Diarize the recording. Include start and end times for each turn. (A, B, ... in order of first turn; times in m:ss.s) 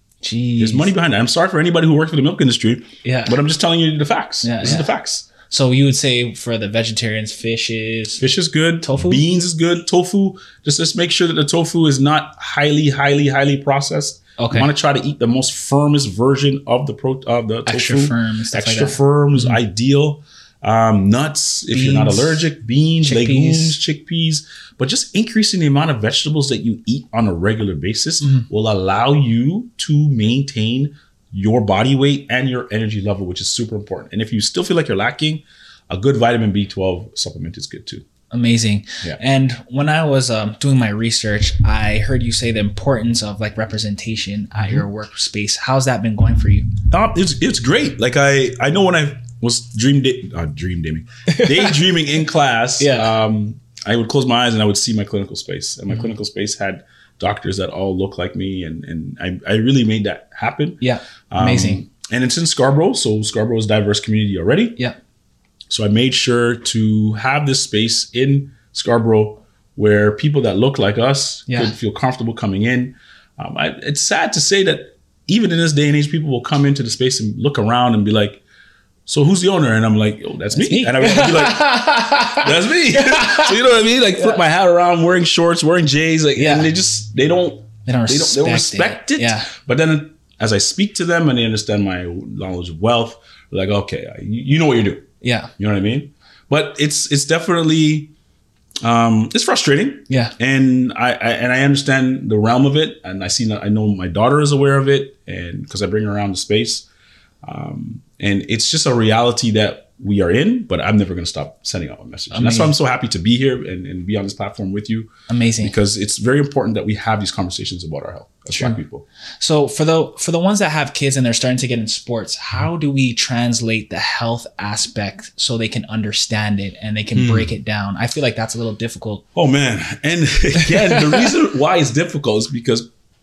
0:00.2-0:00.9 A
0:00.6-0:05.3 B
0:03.0-0:03.4 A
0:04.4-0:04.9 A
0:05.4-0:08.2 A
0:08.2-0:38.0 B
0:08.8-0:09.2 A
0:14.4-0:14.7 A
0:17.6-0:19.6 A
0:21.7-0:22.5 A
0:23.0-0:23.8 A
0:38.3-0:46.7 A
0:46.9-1:04.8 B
0:51.3-0:51.8 A
0:52.8-0:53.1 A
1:00.8-1:01.8 A
1:05.7-1:18.4 B
1:19.0-1:35.1 B
1:20.5-1:23.6 A
1:26.4-1:26.7 A
1:27.8-1:29.5 A
1:35.2-1:35.5 A
1:35.6-1:38.1 B
1:38.8-1:46.8 B
1:40.1-1:40.3 A
1:47.4-1:59.0 B
1:52.3-1:52.7 A
1:55.3-1:55.7 A
1:58.5-1:58.8 A
1:59.4-2:09.2 A
2:07.1-2:07.5 B
2:09.3-2:12.9 B
2:10.6-2:11.2 A